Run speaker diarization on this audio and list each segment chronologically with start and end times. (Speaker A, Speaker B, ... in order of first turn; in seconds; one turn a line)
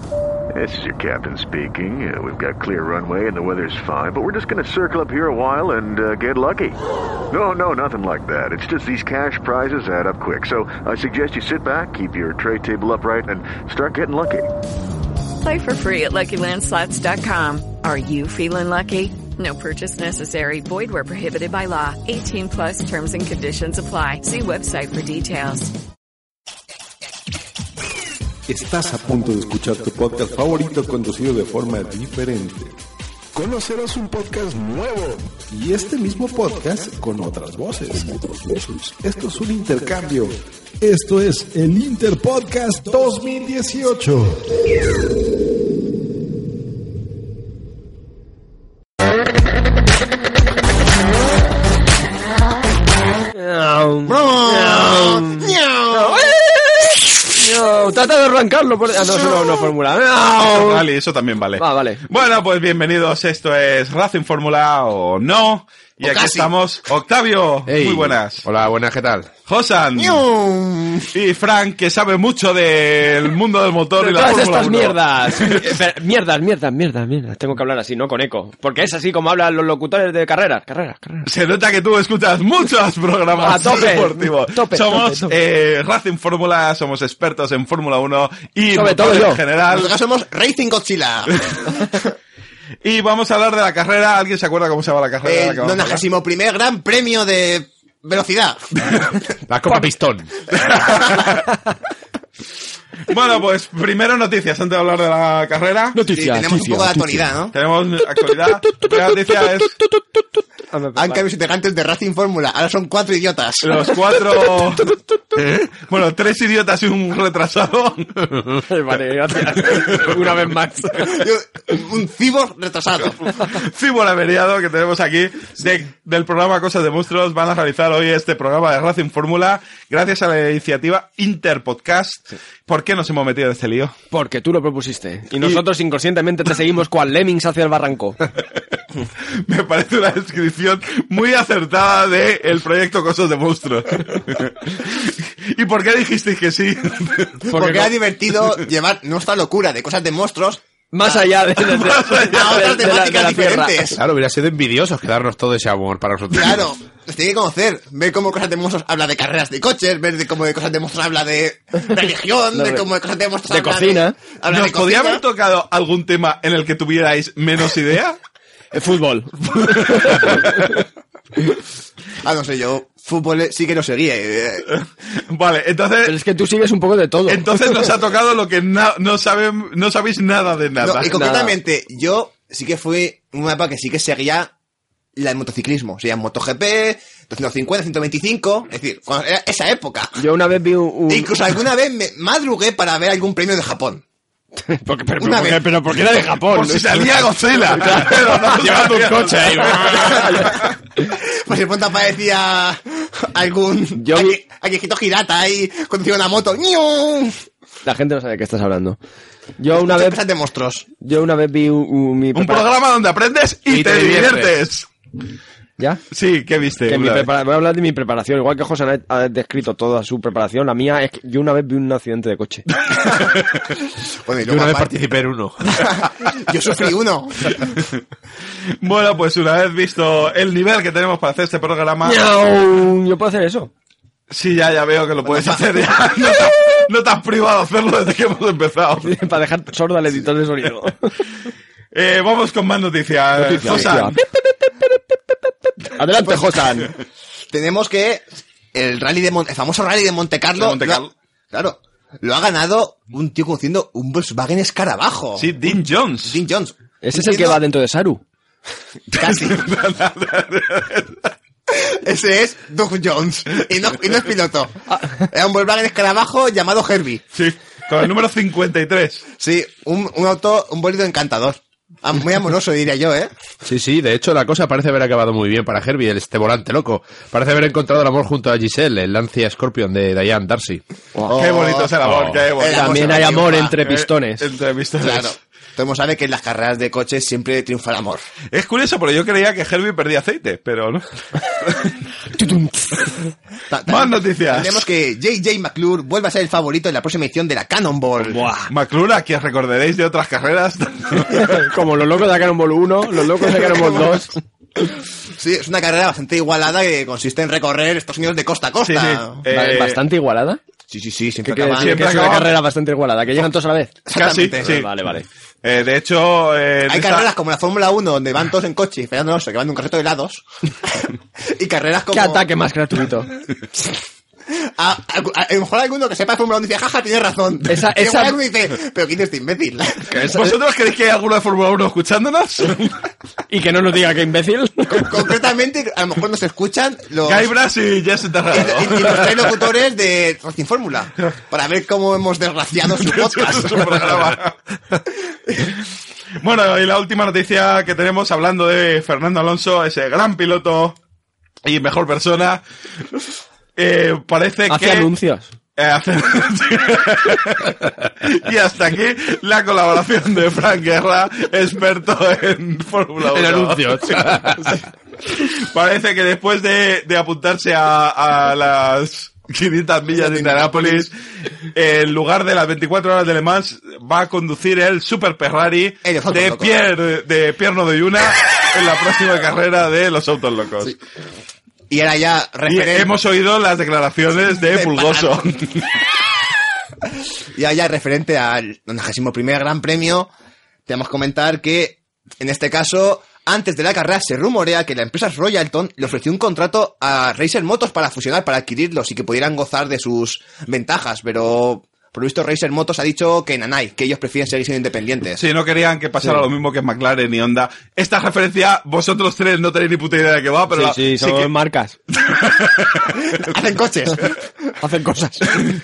Speaker A: 0.5-6.8
Speaker A: 7.3-14.6
Speaker B: 15.4-25.7
Speaker C: 28.5-32.7
Speaker C: 33.3-44.4
Speaker D: 53.3-60.8
Speaker E: 54.1-56.3
Speaker F: 60.4-68.4
Speaker D: 61.6-62.0
Speaker E: 66.0-66.5
Speaker G: 67.7-69.3
Speaker F: 69.5-70.2
Speaker E: 69.9-71.1
Speaker F: 71.1-75.8
Speaker D: 74.0-81.3
Speaker F: 81.2-89.9
Speaker D: 83.3-85.3
Speaker E: 83.6-83.9
Speaker D: 88.7-89.4
Speaker E: 89.7-91.3
Speaker F: 92.8-96.0
Speaker E: 95.2-98.6
Speaker G: 99.5-100.3
Speaker E: 100.5-101.3
Speaker F: 100.5-101.5
Speaker F: 103.1-106.0
Speaker D: 105.9-107.2
Speaker E: 106.1-107.5
Speaker F: 107.5-109.8
Speaker D: 108.7-109.5
Speaker D: 110.7-111.2
Speaker E: 111.0-113.9
Speaker F: 113.6-114.9
Speaker F: 115.5-118.4
Speaker D: 118.6-121.3
Speaker F: 119.7-120.4
Speaker E: 121.1-123.3
Speaker F: 123.4-133.9
Speaker D: 134.1-138.2
Speaker F: 139.4-147.5
Speaker E: 147.5-151.2
Speaker D: 147.5-147.9
Speaker D: 150.9-153.9
Speaker F: 151.6-152.5
Speaker E: 152.3-154.0
Speaker G: 153.9-156.7
Speaker E: 156.3-165.2
Speaker D: 162.5-162.8
Speaker D: 163.5-164.2
Speaker F: 164.5-168.2
Speaker D: 168.7-170.6
Speaker F: 169.6-170.7
Speaker E: 172.2-174.7
Speaker F: 174.7-176.2
Speaker D: 176.0-177.9
Speaker F: 177.3-181.1
Speaker E: 180.8-184.5
Speaker D: 181.1-181.6
Speaker E: 185.2-190.2
Speaker D: 190.2-191.3
Speaker E: 191.1-194.0
Speaker D: 194.6-200.6
Speaker E: 195.2-195.6
Speaker F: 196.4-200.7
Speaker E: 199.9-207.4
Speaker D: 203.9-204.4
Speaker D: 207.8-209.0
Speaker D: 209.6-210.2
Speaker E: 209.7-210.9
Speaker D: 211.0-212.7
Speaker F: 212.3-214.9
Speaker G: 213.7-214.5
Speaker F: 216.1-217.3
Speaker D: 216.9-222.7
Speaker E: 224.2-225.0
Speaker G: 224.4-225.9
Speaker E: 225.7-227.6
Speaker F: 227.5-227.9
Speaker F: 228.8-232.2
Speaker D: 232.0-233.7
Speaker F: 234.3-239.1
Speaker E: 235.2-235.6
Speaker D: 239.0-241.1
Speaker F: 241.9-244.2
Speaker D: 243.4-246.9
Speaker E: 246.2-246.6
Speaker E: 247.5-248.2
Speaker E: 248.7-255.5
Speaker F: 250.6-251.1
Speaker F: 255.4-256.4
Speaker E: 256.2-257.6
Speaker D: 257.0-258.2
Speaker F: 259.1-261.3
Speaker E: 259.1-259.6
Speaker E: 261.7-267.2
Speaker F: 267.3-269.2
Speaker E: 269.4-273.3
Speaker G: 273.6-280.8
Speaker E: 281.2-283.7
Speaker F: 281.4-285.3
Speaker D: 282.7-284.5
Speaker E: 285.0-288.2
Speaker F: 288.5-291.0
Speaker D: 292.3-293.1
Speaker E: 293.7-298.5
Speaker F: 293.9-294.8
Speaker D: 298.2-298.7
Speaker F: 298.7-301.6
Speaker D: 301.3-304.4
Speaker E: 303.6-304.2
Speaker E: 305.3-309.4
Speaker F: 308.8-310.0
Speaker D: 309.5-310.6
Speaker E: 310.9-312.3
Speaker D: 311.4-314.0
Speaker F: 311.8-312.6
Speaker E: 314.1-314.8
Speaker F: 314.1-314.9
Speaker D: 314.7-315.2
Speaker F: 315.6-317.3
Speaker E: 316.9-322.5
Speaker D: 322.1-323.3
Speaker E: 324.5-330.2
Speaker D: 327.7-328.4
Speaker D: 330.1-330.5
Speaker F: 330.3-333.0
Speaker D: 333.5-335.1
Speaker E: 334.9-337.5
Speaker F: 337.2-339.5
Speaker E: 338.5-344.4
Speaker F: 343.0-344.6
Speaker F: 346.4-351.0
Speaker F: 351.6-352.6
Speaker F: 353.8-355.1
Speaker D: 354.7-355.5
Speaker F: 355.8-364.7
Speaker G: 363.3-364.8
Speaker F: 365.3-371.1
Speaker E: 370.1-371.1
Speaker F: 371.7-380.9
Speaker E: 376.0-376.8
Speaker E: 381.9-383.1
Speaker F: 382.7-385.9
Speaker E: 384.6-385.4
Speaker E: 387.5-390.3
Speaker E: 390.9-405.4
Speaker F: 405.4-411.5
Speaker D: 410.7-411.9
Speaker F: 412.2-413.2
Speaker E: 413.4-414.3
Speaker D: 414.8-415.6